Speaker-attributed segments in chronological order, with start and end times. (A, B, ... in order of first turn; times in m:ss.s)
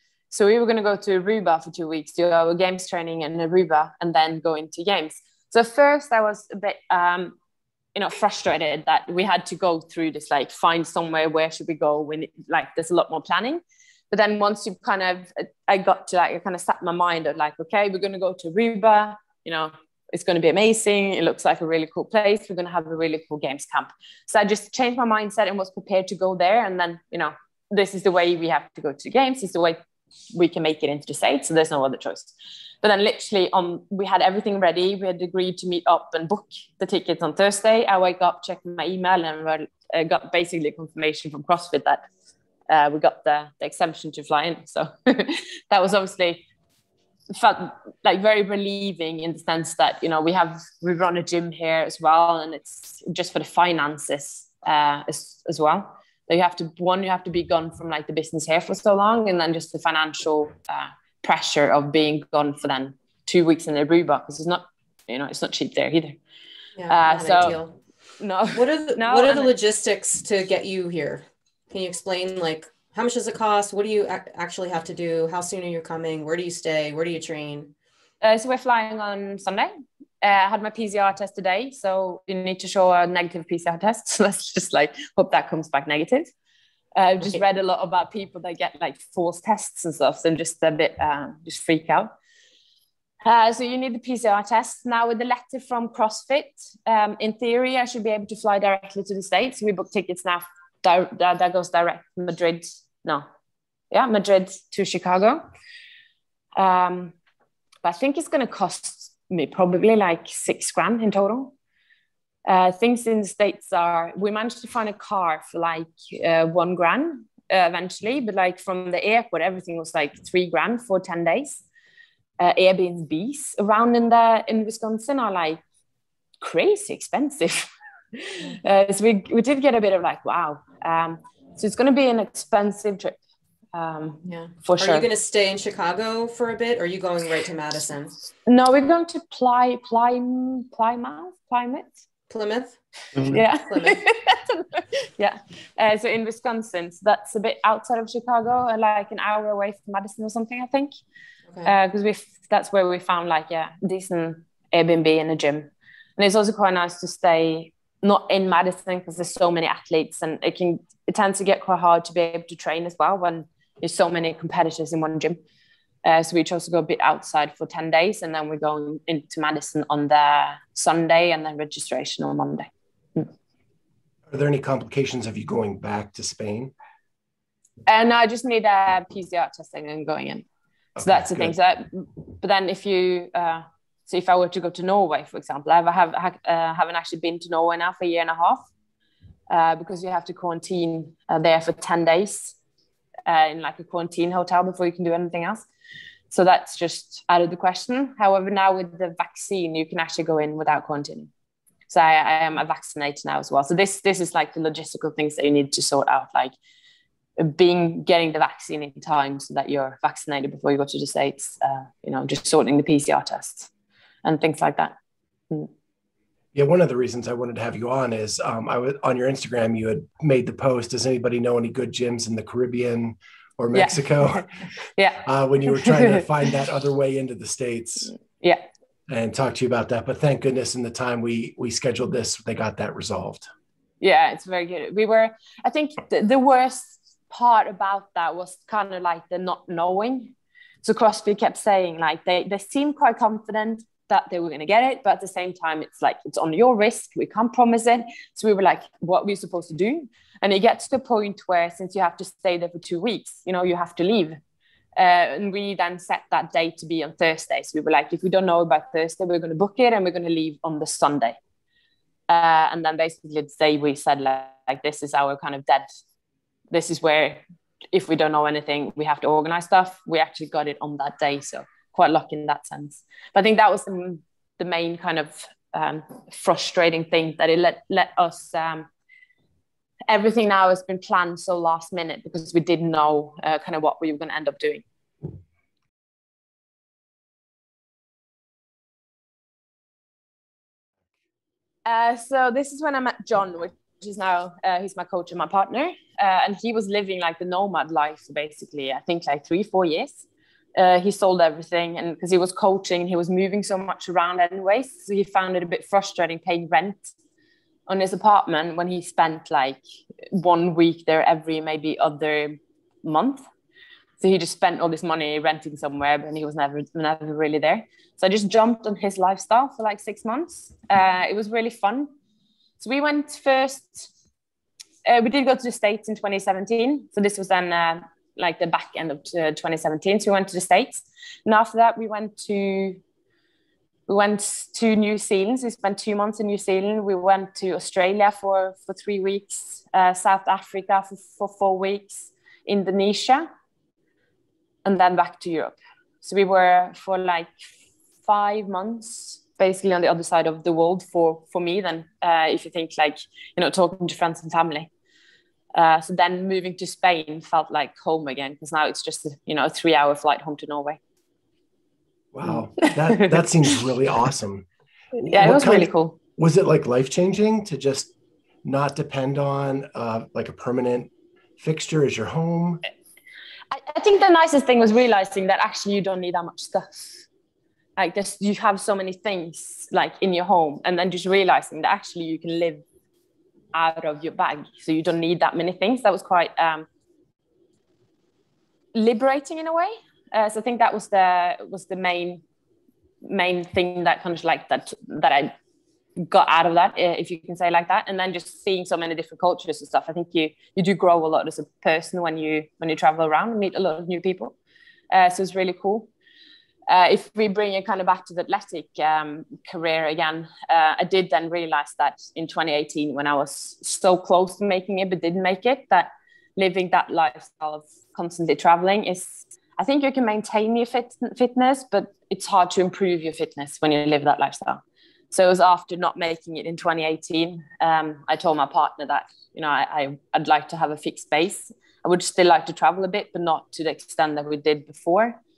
0:00.3-0:07.4 A
0:08.0-0:29.8 A
0:30.3-0:42.1 A
0:42.7-0:46.5 A
0:47.3-1:06.2 A
1:06.8-1:07.8 B
1:06.9-1:07.6 A
1:08.2-1:09.5 A
1:08.5-1:17.7 B
1:18.2-1:19.7 A
1:20.2-1:26.3 A
1:27.0-1:32.1 A
1:33.2-1:43.2 A
1:43.9-1:45.4 A
1:46.6-1:47.2 A
1:47.8-1:51.6 A
1:52.4-2:01.6 A
2:02.4-2:05.6 A
2:06.4-2:13.2 A
2:13.7-2:15.1 A
2:14.3-2:18.1 B
2:18.5-2:22.0 A
2:22.3-2:22.8 B
2:23.2-2:30.9 A
2:23.5-2:24.0 B
2:31.6-2:45.4 A
2:46.0-2:53.3 A
2:54.3-2:56.7 C
2:57.9-3:00.5 A
3:01.0-3:01.6 C
3:01.0-3:08.7 A
3:09.5-3:12.6 A
3:13.3-3:15.7 A
3:16.3-3:21.3 A
3:21.9-3:26.5 A
3:27.4-3:33.7 A
3:34.2-3:34.9 A
3:36.5-3:44.5 C
3:43.7-3:46.3 A
3:45.2-3:48.2 C
3:48.2-3:48.6 A
3:49.1-3:53.5 C
3:54.0-4:14.4 A
4:15.0-4:21.4 A
4:22.3-4:25.9 A
4:26.7-4:27.4 A
4:27.9-4:38.9 A
4:40.1-4:44.8 A
4:51.9-5:07.1 A
5:07.9-5:13.4 A
5:14.2-5:22.1 A
5:22.8-5:24.1 A
5:25.0-5:33.0 A
5:34.1-5:43.5 A
5:44.8-5:47.7 A
5:48.2-5:54.9 A
5:55.7-6:01.0 A
6:02.3-6:08.1 C
6:02.8-6:03.4 A
6:05.2-6:06.2 A
6:08.6-6:12.8 C
6:13.7-6:17.3 A
6:18.0-6:22.8 A
6:23.7-6:26.9 A
6:28.9-6:32.4 A
6:33.2-6:35.5 A
6:36.2-6:44.6 A
6:45.1-6:46.1 A
6:46.9-7:15.4 A